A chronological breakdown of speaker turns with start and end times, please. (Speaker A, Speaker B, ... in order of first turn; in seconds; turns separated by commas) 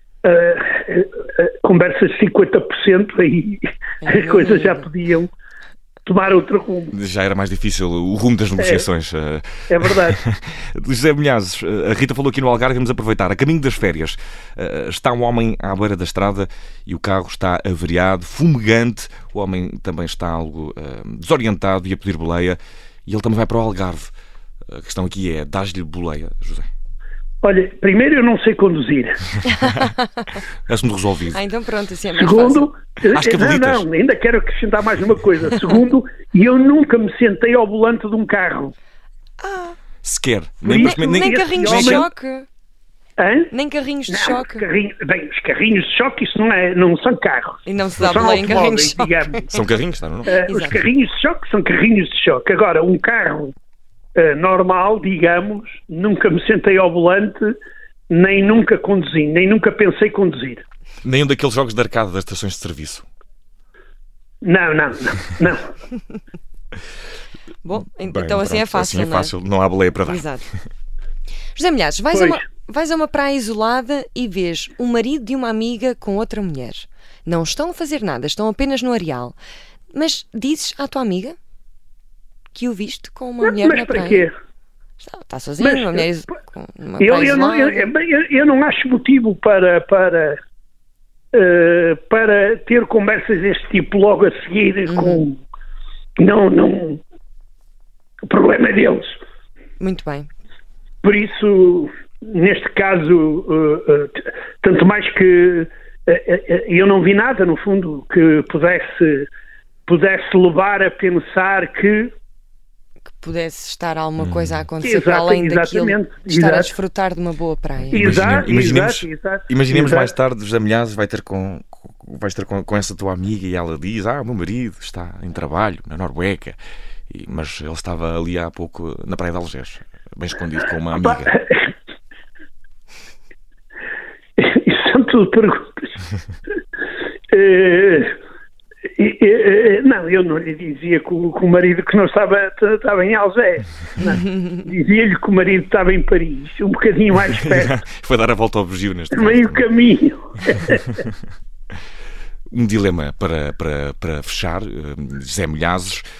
Speaker A: 0.2-5.3, Speaker B: 4.0-4.9, Speaker A: 6.0-6.9, Speaker C: 6.9-24.1, Speaker A: 8.6-8.9, Speaker A: 9.7-10.2, Speaker C: 24.7-26.7, Speaker A: 27.4-29.2, Speaker B: 29.4-30.3, Speaker C: 30.7-31.4, Speaker B: 31.3-32.7, Speaker A: 32.2-38.7, Speaker C: 33.1-33.8, Speaker B: 39.4-39.8, Speaker C: 40.0-42.1, Speaker A: 40.6-42.1, Speaker B: 40.7-42.5, Speaker A: 43.2-43.5, Speaker B: 43.5-44.6, Speaker A: 44.1-49.5, Speaker B: 47.7-49.5, Speaker C: 49.5-50.4, Speaker A: 50.2-53.5, Speaker B: 50.4-50.8, Speaker A: 54.2-57.6, Speaker A: 58.1-60.6, Speaker C: 61.0-63.1, Speaker A: 64.4-65.7, Speaker B: 67.6-69.3, Speaker C: 68.0-70.3, Speaker B: 70.1-70.5, Speaker B: 71.5-79.4, Speaker B: 79.9-81.4, Speaker B: 82.5-84.3, Speaker A: 83.4-84.3, Speaker B: 85.0-87.9, Speaker A: 85.6-86.1, Speaker A: 87.0-90.4, Speaker A: 91.3-95.4, Speaker B: 94.9-95.2, Speaker A: 96.2-97.0, Speaker A: 98.3-99.2, Speaker B: 99.8-100.3, Speaker A: 101.0-109.3, Speaker A: 109.9-112.1, Speaker B: 113.2-118.2, Speaker C: 114.2-114.6, Speaker A: 114.8-116.7, Speaker C: 117.9-126.6, Speaker A: 117.9-120.1, Speaker C: 127.1-131.3, Speaker A: 130.9-131.7, Speaker A: 134.4-136.0, Speaker A: 137.3-138.2, Speaker A: 139.0-147.7, Speaker B: 144.0-144.5, Speaker C: 147.3-149.6, Speaker A: 149.1-151.0, Speaker C: 152.5-156.1